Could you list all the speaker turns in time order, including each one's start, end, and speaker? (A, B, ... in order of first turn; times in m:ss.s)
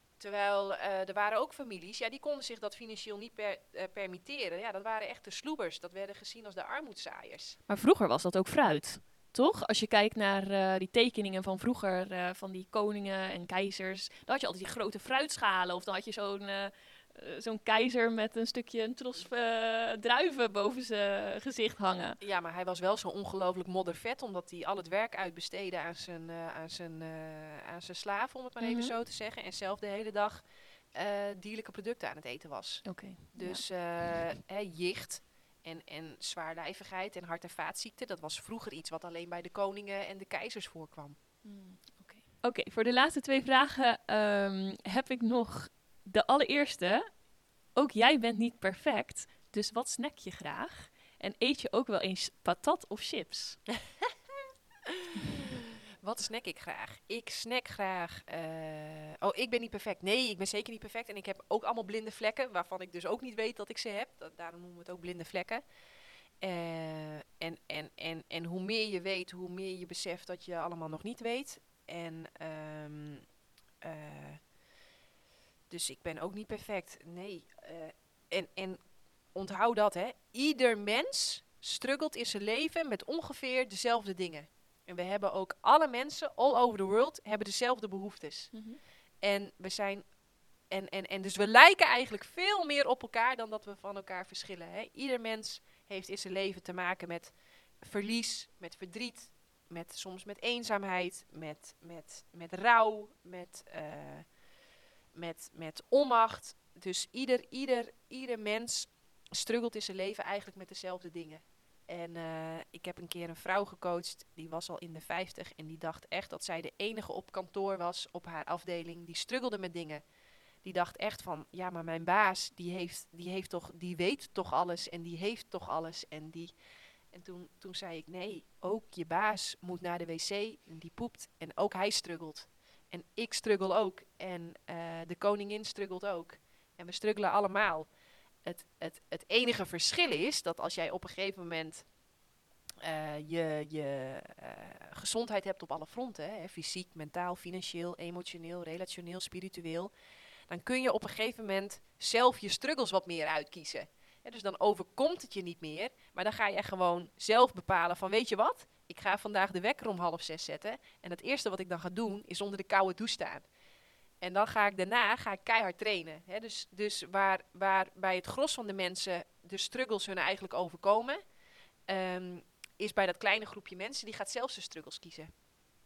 0:00.2-0:07.6 A
0:07.7-0:22.2 B
0:22.2-0:41.2 A
0:28.6-0:28.9 B
0:32.8-0:33.6 B
0:41.4-0:47.1 B
0:47.7-0:53.6 B
0:56.0-1:05.6 A
1:06.4-1:13.2 A
1:13.8-1:14.4 A
1:15.7-1:18.8 A
1:19.3-1:28.5 A
1:28.5-1:28.8 B
1:29.2-1:30.0 A
1:30.7-1:44.2 A
1:45.1-2:00.0 A
2:00.6-2:06.5 A
2:07.1-2:17.9 A
2:18.4-2:21.8 A
2:22.8-2:29.9 A
2:30.5-2:43.4 A
2:44.2-2:51.2 A
2:51.9-2:55.3 A